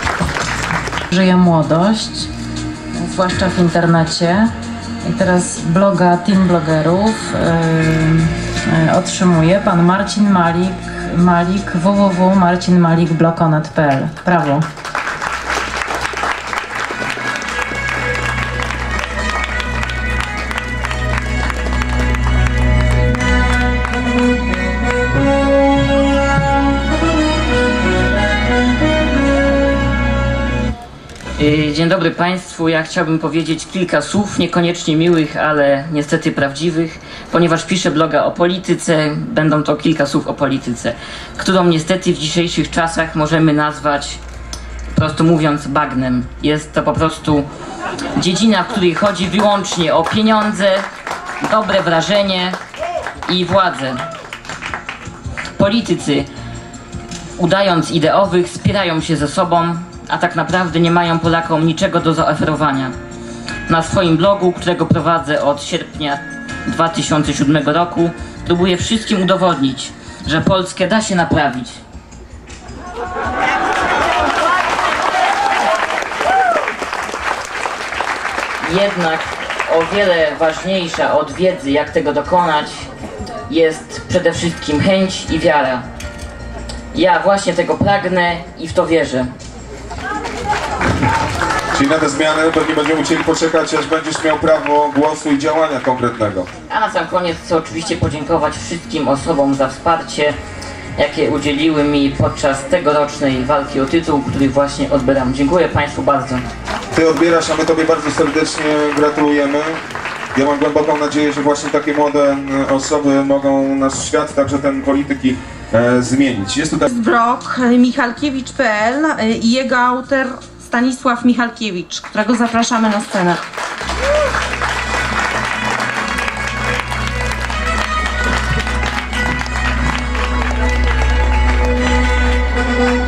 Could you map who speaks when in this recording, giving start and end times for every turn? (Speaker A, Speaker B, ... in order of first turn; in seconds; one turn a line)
Speaker A: 1.1-2.3
Speaker A: 3.0-4.5
Speaker A: 5.0-14.7
Speaker B: 31.4-44.2
Speaker B: 44.9-47.5
Speaker B: 48.2-50.9
Speaker B: 51.4-52.6
Speaker B: 53.3-54.1
Speaker B: 55.6-56.3
Speaker B: 57.4-62.9
Speaker B: 63.7-71.8
Speaker B: 78.6-82.9
Speaker B: 83.5-85.8
Speaker B: 86.9-89.3
Speaker C: 91.7-96.5
Speaker B: 96.7-100.4
Speaker B: 101.0-106.5
Speaker C: 106.9-109.8
Speaker C: 110.3-116.9
Speaker D: 116.9-123.4